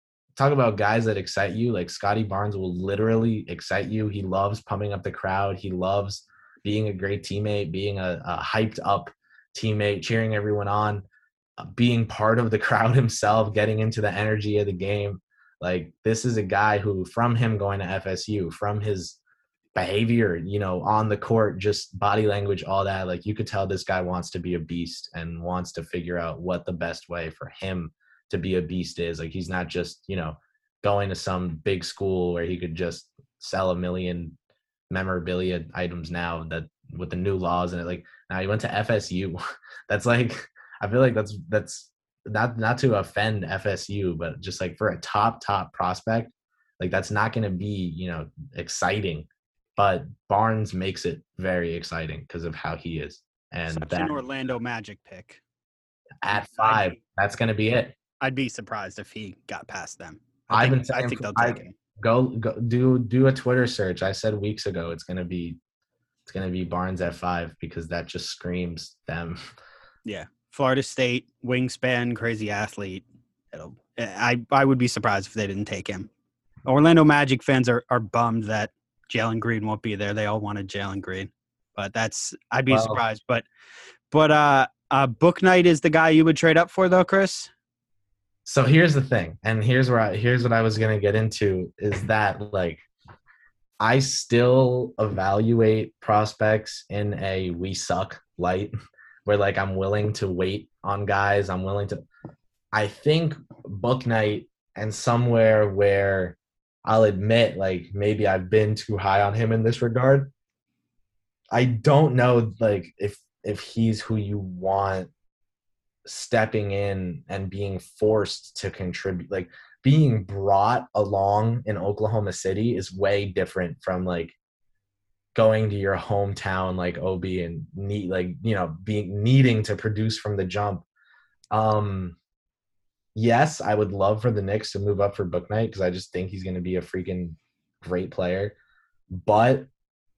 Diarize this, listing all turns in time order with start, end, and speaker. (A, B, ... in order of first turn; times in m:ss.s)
0:00.4-0:11.0 A
0:11.6-0:19.2 A
0:19.7-0:34.3 A
0:34.9-0:54.2 A
0:53.7-0:55.4 B
0:56.2-0:58.0 A
0:56.3-0:57.0 B
0:58.2-1:01.7 B
1:00.5-1:05.6 A
1:06.3-1:09.4 A
1:10.0-1:16.1 B
1:16.6-1:23.4 B
1:22.7-1:23.0 A
1:24.1-1:27.5 B
1:28.4-1:32.9 A
1:33.8-1:38.7 A
1:39.2-1:42.0 A
1:42.7-1:50.3 A
1:51.5-1:55.1 A
1:56.0-2:04.4 A
2:05.3-2:10.8 A
2:11.5-2:12.2 A
2:13.2-2:18.5 A
2:19.1-2:19.7 A